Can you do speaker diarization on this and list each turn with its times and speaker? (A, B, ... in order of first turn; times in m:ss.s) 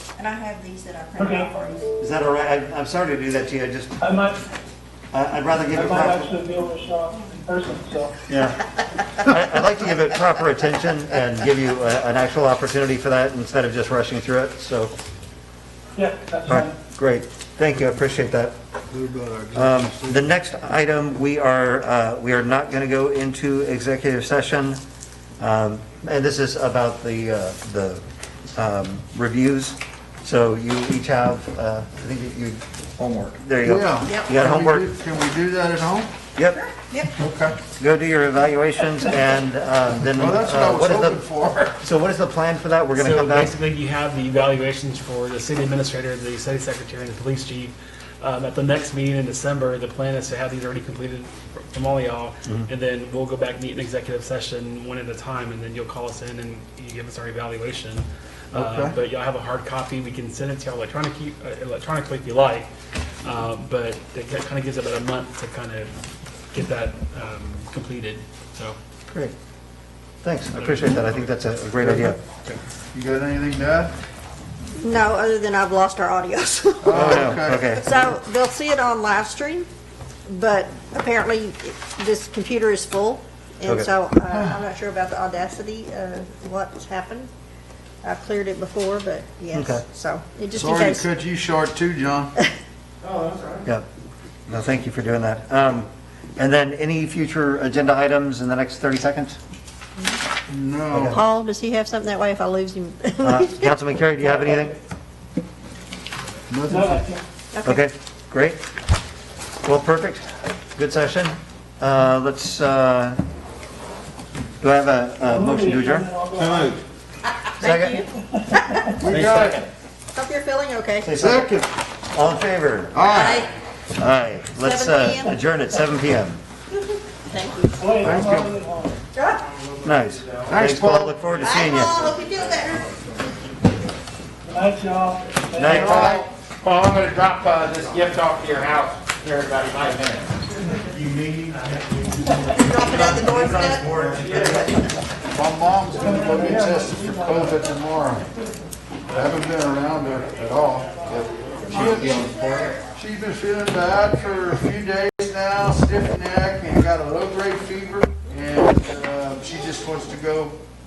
0:00.2-0:01.9 A
0:01.2-0:01.5 B
0:02.0-0:04.0 C
0:04.0-0:04.4 B
0:05.1-0:06.3 C
0:05.7-0:08.2 B
0:08.3-0:14.9 C
0:16.0-0:16.7 B
0:16.5-0:18.6 C
0:18.9-0:20.3 D
0:19.6-0:24.8 C
0:25.4-0:28.0 C
0:28.6-0:34.9 C
0:33.6-0:36.1 D
0:36.4-0:36.6 C
0:36.6-0:37.1 A
0:37.2-0:37.6 D
0:37.8-0:41.2 C
0:40.2-0:41.8 D
0:41.8-0:43.5 C
0:43.0-1:02.7 E
0:58.5-0:59.0 D
1:03.2-1:05.9 E
1:06.5-1:08.8 E
1:10.2-1:12.2 C
1:10.5-1:11.2 E
1:11.8-1:13.9 D
1:14.8-1:19.7 A
1:16.8-1:17.7 D
1:16.9-1:17.9 C
1:20.3-1:27.3 A
1:24.3-1:24.6 D
1:28.0-1:31.1 A
1:29.5-1:29.8 C
1:30.5-1:32.3 D
1:34.5-1:39.4 C
1:40.5-1:41.2 D
1:40.9-1:41.2 C
1:41.1-1:43.7 A
1:43.2-1:44.8 C
1:46.5-1:47.0 D
1:46.7-1:47.2 B
1:47.5-1:47.8 A
1:47.6-1:48.6 C
1:49.6-1:50.2 C
1:50.8-1:53.2 C
1:54.6-1:56.1 C
1:55.2-1:56.8 B
1:56.4-1:56.7 D
1:57.2-1:59.0 A
1:57.6-1:58.0 C
1:58.3-1:58.9 B
1:59.0-1:59.7 D
1:59.1-1:59.6 C
2:00.1-2:01.1 A
2:01.0-2:01.5 C
2:01.2-2:01.7 D
2:02.1-2:03.0 C
2:02.9-2:03.5 D
2:03.0-2:03.5 A
2:04.0-2:06.4 C
2:04.6-2:05.4 A
2:07.3-2:07.9 A
2:07.8-2:09.0 B
2:08.0-2:08.5 D
2:09.2-2:09.5 A
2:09.8-2:12.1 C
2:10.5-2:11.1 D
2:11.4-2:13.0 A
2:14.5-2:16.1 B
2:15.6-2:16.3 C
2:15.8-2:16.3 D
2:16.6-2:20.2 F
2:20.8-2:24.7 C
2:22.5-2:23.9 A
2:25.3-2:28.3 D
2:26.0-2:27.6 B
2:29.1-2:40.6 D
2:31.7-2:32.8 A